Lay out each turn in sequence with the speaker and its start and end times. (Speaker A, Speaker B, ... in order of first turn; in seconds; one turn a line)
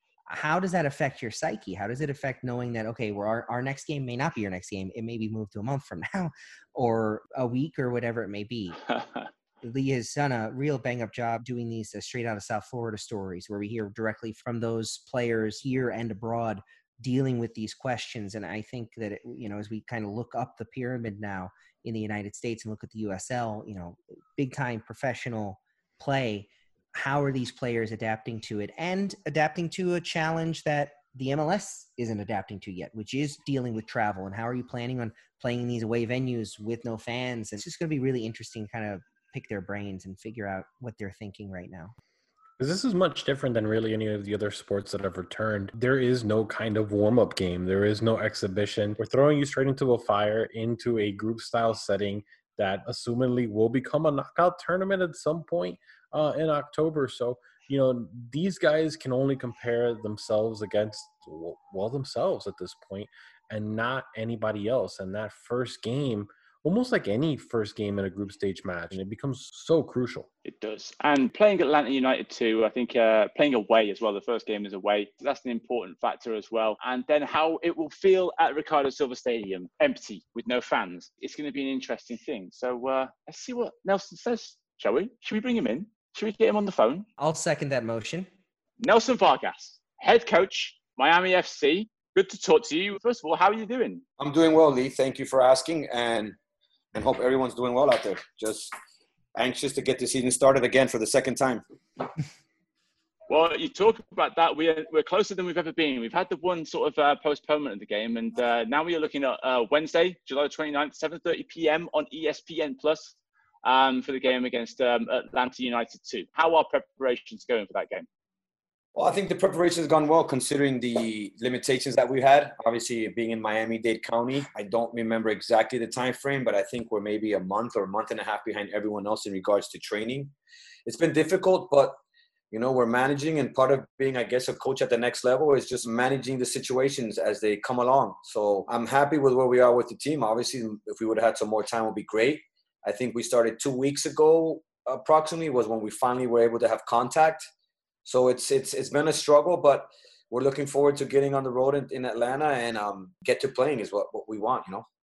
Speaker A: 0.3-8.8
Speaker B: 9.0-9.2
Speaker A: 9.6-41.9
Speaker C: 42.6-70.3
Speaker B: 70.4-87.0
Speaker A: 87.2-88.3
Speaker B: 88.8-94.0
Speaker D: 94.2-96.4
Speaker D: 96.9-98.7
Speaker D: 99.3-101.6
Speaker B: 103.3-118.1
Speaker D: 118.9-130.3
Speaker D: 130.8-132.0
Speaker D: 132.5-147.4
Speaker D: 148.0-154.8